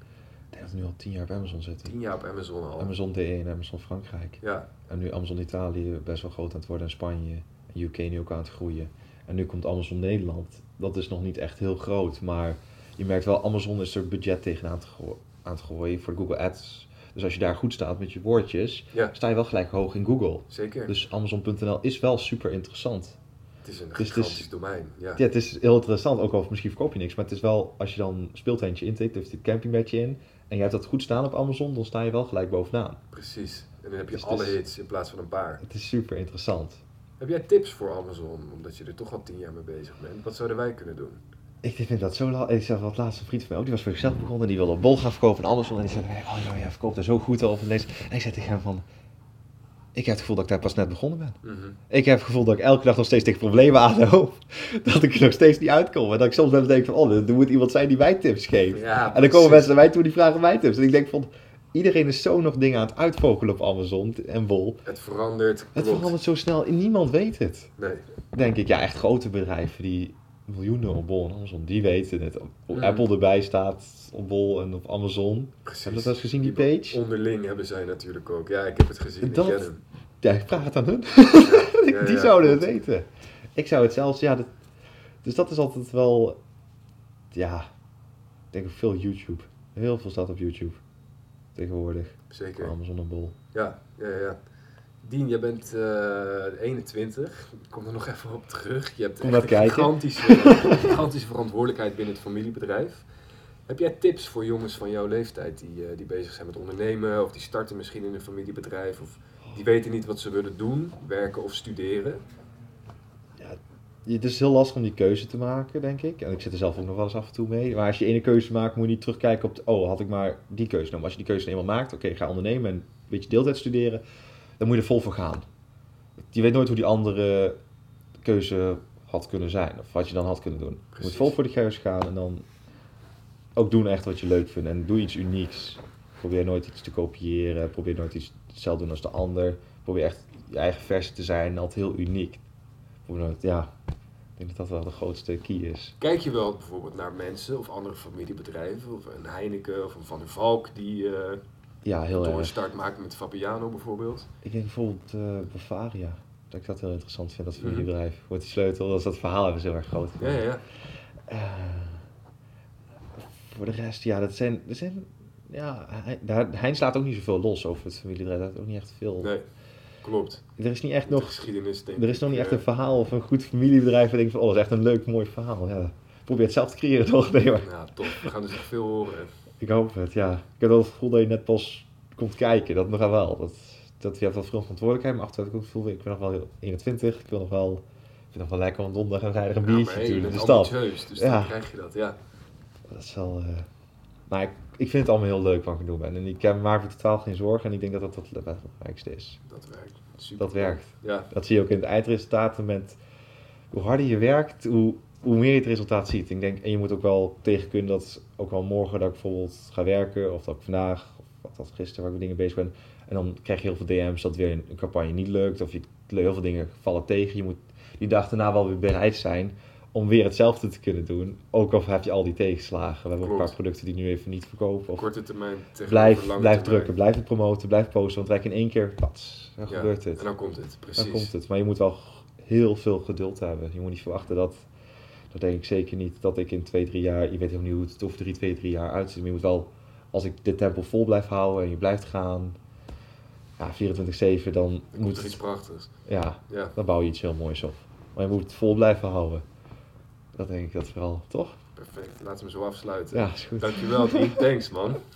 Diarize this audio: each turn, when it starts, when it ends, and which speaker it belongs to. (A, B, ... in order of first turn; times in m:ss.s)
0:00.5-0:01.9 A
0:01.9-0:02.9 B
0:02.8-0:23.2 A
0:04.4-0:04.7 B
0:20.5-0:21.0 B
0:23.6-0:25.2 B
0:24.0-0:24.5 A
0:25.2-0:33.0 A
0:33.1-0:35.6 B
0:34.1-0:34.6 A
0:35.6-0:36.8 A
0:37.2-0:41.2 B
0:41.6-0:48.8 A
0:50.0-0:51.4 A
0:51.4-0:51.8 B
0:51.9-1:04.8 A
0:58.7-0:59.8 B
1:04.8-1:06.1 B
1:05.8-1:07.7 A
1:07.8-1:08.0 B
1:08.3-1:17.0 A
1:12.7-1:13.1 B
1:15.6-1:19.8 B
1:19.2-1:19.7 A
1:20.2-1:24.5 A
1:21.4-1:22.7 B
1:25.2-1:26.4 A
1:27.3-1:27.7 A
1:28.5-1:30.8 A
1:31.5-1:33.4 A
1:32.3-1:32.7 B
1:33.5-1:34.4 B
1:35.0-1:43.1 B
1:39.2-1:41.0 A
1:43.7-1:52.2 B
1:53.4-2:04.0 A
2:04.6-2:05.4 A
2:06.3-2:07.6 A
2:08.2-2:12.4 A
2:10.9-2:11.4 B
2:13.6-2:22.4 A
2:23.0-2:23.7 A
2:24.4-2:26.0 A
2:26.0-2:31.4 B
2:31.8-2:32.6 A
2:32.1-2:34.3 B
2:34.4-2:40.5 A
2:37.6-2:37.9 B
2:40.2-2:40.6 B
2:41.3-2:42.0 A
2:43.2-2:49.3 A
2:50.0-2:50.4 B
2:50.6-2:51.4 A
2:51.0-2:52.6 B
2:52.0-2:58.3 A
2:57.6-2:59.3 B
2:59.6-3:11.6 A
3:09.6-3:12.2 B
3:12.9-3:13.6 A
3:14.3-3:19.4 A
3:19.5-3:21.3 B
3:20.4-3:23.0 A
3:23.7-3:45.1 A
3:43.2-3:43.6 B
3:45.0-3:47.0 B
3:45.9-3:50.2 A
3:49.7-3:51.3 B
3:51.0-3:54.6 A
3:55.3-4:02.6 A
4:03.6-4:05.4 A
4:04.9-4:05.9 B
4:06.0-4:09.4 A
4:06.5-4:06.7 B
4:10.4-4:11.6 A
4:11.8-4:15.0 B
4:13.1-4:14.4 A